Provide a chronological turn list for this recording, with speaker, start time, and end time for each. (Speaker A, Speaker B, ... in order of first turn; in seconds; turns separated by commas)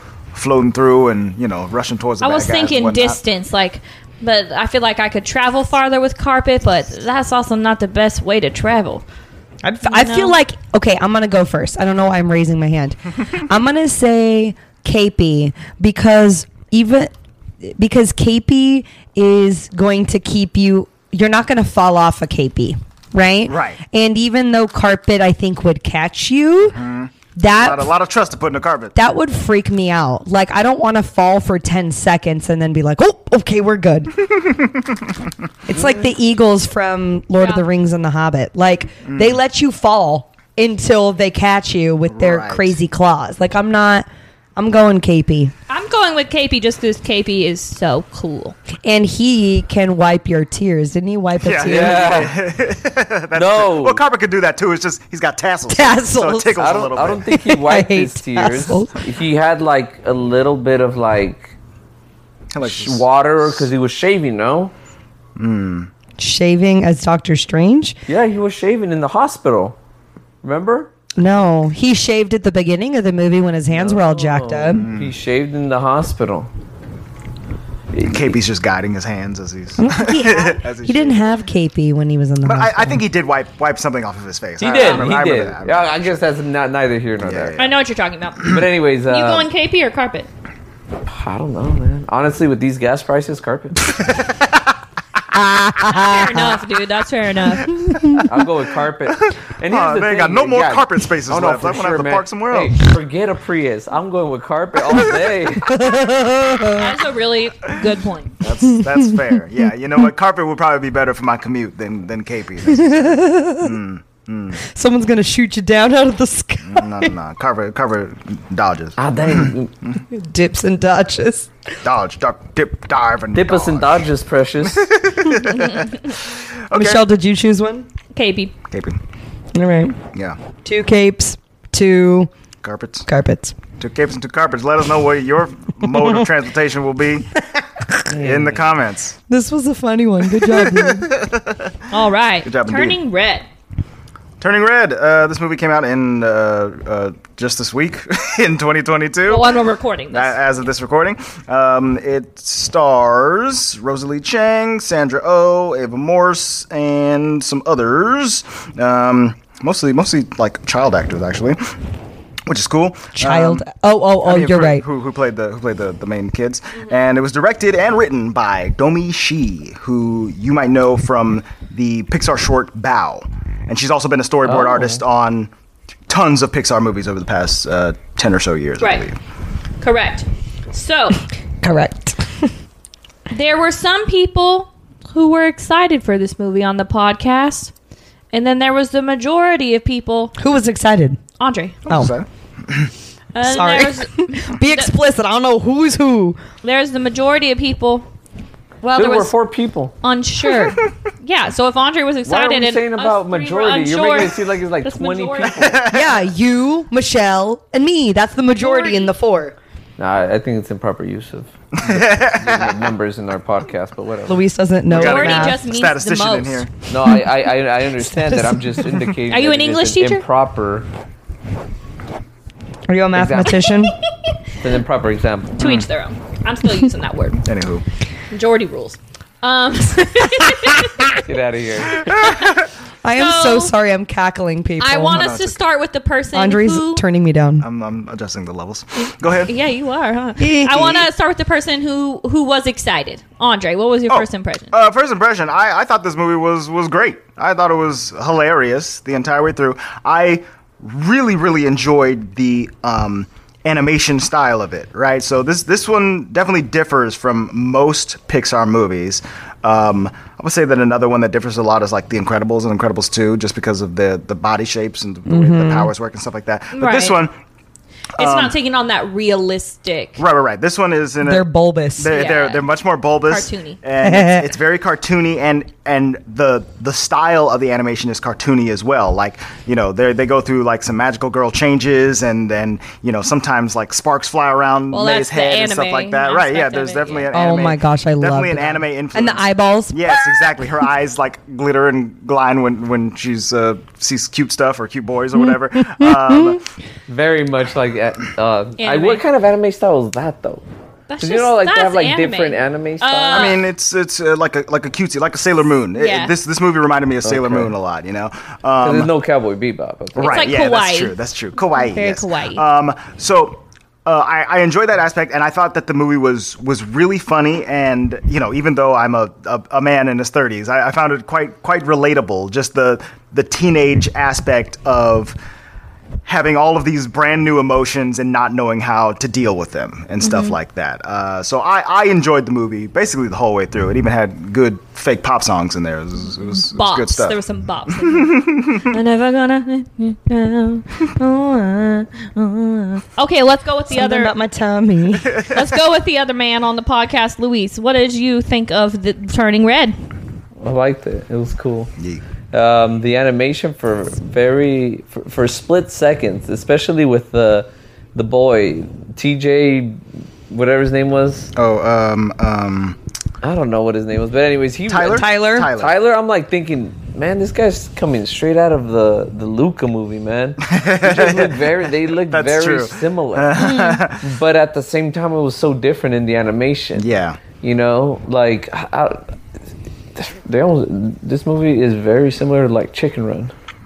Speaker A: 0.3-3.2, Speaker B: 2.2-9.0, Speaker C: 9.6-26.8, Speaker B: 9.8-10.4, Speaker A: 23.4-23.8, Speaker A: 26.6-28.9, Speaker C: 27.4-27.9, Speaker C: 28.9-34.3, Speaker C: 35.7-45.5, Speaker B: 37.4-37.6, Speaker A: 39.1-39.4, Speaker A: 42.1-42.8, Speaker B: 45.7-48.5, Speaker C: 48.8-52.3, Speaker A: 51.4-57.3, Speaker D: 51.6-52.4, Speaker D: 53.3-54.0, Speaker C: 55.7-56.6, Speaker D: 56.6-61.5, Speaker C: 57.3-59.0, Speaker A: 62.5-63.6, Speaker D: 62.6-64.7, Speaker A: 65.4-65.9, Speaker C: 66.2-68.0, Speaker D: 68.1-69.8, Speaker D: 70.4-70.9, Speaker C: 71.2-74.9, Speaker D: 73.7-76.5, Speaker A: 74.7-75.1, Speaker D: 77.9-78.3, Speaker A: 78.1-81.4, Speaker C: 79.8-83.0, Speaker A: 82.4-86.2, Speaker D: 84.6-87.5, Speaker B: 84.6-85.1, Speaker A: 87.2-87.8, Speaker B: 87.6-90.3, Speaker D: 88.4-89.5, Speaker D: 91.0-93.9, Speaker A: 93.9-94.6, Speaker C: 95.3-96.5, Speaker B: 95.8-97.8, Speaker C: 97.8-98.2, Speaker D: 98.2-105.8, Speaker A: 99.1-102.9, Speaker C: 105.6-107.0, Speaker B: 106.7-108.4, Speaker A: 108.4-114.6, Speaker C: 112.7-113.7, Speaker C: 114.6-117.1, Speaker A: 116.7-119.5, Speaker D: 119.0-119.7, Speaker C: 120.1-121.5, Speaker A: 121.8-124.0, Speaker D: 123.3-124.9, Speaker A: 124.6-127.0, Speaker C: 126.7-127.9, Speaker B: 128.1-128.5, Speaker A: 128.7-129.0, Speaker C: 129.5-130.0, Speaker A: 130.1-130.4, Speaker C: 130.6-132.3, Speaker A: 132.6-133.1, Speaker C: 133.1-133.6, Speaker A: 133.8-137.3, Speaker D: 138.1-138.7, Speaker A: 138.2-139.2, Speaker C: 139.3-141.1, Speaker A: 140.3-141.7, Speaker B: 141.9-143.4, Speaker A: 142.4-143.0, Speaker A: 144.4-149.5, Speaker B: 149.3-150.3, Speaker A: 150.1-161.7, Speaker A: 162.5-163.7, Speaker C: 163.2-164.8, Speaker A: 164.2-175.5, Speaker D: 174.4-175.0, Speaker A: 176.1-179.2, Speaker B: 178.8-179.1, Speaker B: 179.8-181.2, Speaker C: 181.6-182.5, Speaker B: 183.3-187.7, Speaker B: 188.3-190.3, Speaker C: 190.4-191.2, Speaker B: 191.4-191.8, Speaker C: 191.9-192.1, Speaker A: 191.9-192.9, Speaker B: 193.3-194.9, Speaker C: 193.4-196.4, Speaker B: 196.6-198.1, Speaker B: 198.8-199.3, Speaker D: 198.9-199.9, Speaker B: 200.0-205.8, Speaker A: 200.6-200.8, Speaker D: 202.2-205.8, Speaker A: 205.5-206.2, Speaker C: 205.9-209.6, Speaker B: 208.6-209.1, Speaker D: 210.0-214.4, Speaker A: 211.8-212.9, Speaker C: 214.3-215.6, Speaker A: 214.9-216.7, Speaker B: 214.9-216.7, Speaker D: 216.9-220.9, Speaker C: 218.0-218.9, Speaker B: 219.3-220.2, Speaker C: 222.9-223.9, Speaker D: 223.1-223.7, Speaker D: 224.6-225.8, Speaker B: 225.6-227.4, Speaker A: 225.6-225.9, Speaker A: 227.4-227.8, Speaker B: 228.3-231.2, Speaker D: 231.2-232.1, Speaker A: 231.9-232.6, Speaker B: 232.1-232.6, Speaker C: 233.0-235.3, Speaker B: 233.1-233.7, Speaker B: 234.8-237.0, Speaker A: 235.1-235.6, Speaker C: 236.3-237.7, Speaker A: 237.6-239.5, Speaker B: 239.4-244.7, Speaker C: 240.4-241.1, Speaker A: 244.1-267.3, Speaker C: 265.3-265.9, Speaker B: 266.7-267.2, Speaker B: 268.2-270.2, Speaker A: 268.2-268.5, Speaker A: 270.2-271.4, Speaker C: 271.2-272.1, Speaker A: 272.0-296.6, Speaker B: 272.1-272.7, Speaker B: 273.3-273.8, Speaker C: 274.0-274.5, Speaker B: 284.9-287.3, Speaker C: 287.3-290.5, Speaker C: 295.4-296.6, Speaker D: 297.1-300.6, Speaker B: 298.8-299.2, Speaker B: 301.1-303.6, Speaker D: 301.2-303.6, Speaker A: 303.3-309.1, Speaker B: 305.9-306.3, Speaker D: 307.2-307.7, Speaker D: 308.8-310.5, Speaker B: 310.1-312.6, Speaker A: 310.1-325.4, Speaker A: 326.2-337.4, Speaker B: 330.2-330.6, Speaker B: 336.7-344.3, Speaker A: 338.1-338.9, Speaker C: 343.9-345.3, Speaker A: 345.3-345.6, Speaker B: 345.5-349.9, Speaker D: 350.6-351.9, Speaker A: 352.0-352.2, Speaker D: 352.5-361.5, Speaker A: 361.5-363.0, Speaker D: 363.4-373.6, Speaker A: 364.9-365.9, Speaker C: 365.1-365.7, Speaker A: 370.6-371.7, Speaker A: 372.3-374.2, Speaker C: 373.6-374.0, Speaker D: 374.2-377.1, Speaker A: 376.9-377.4, Speaker D: 377.6-379.3, Speaker D: 380.1-383.5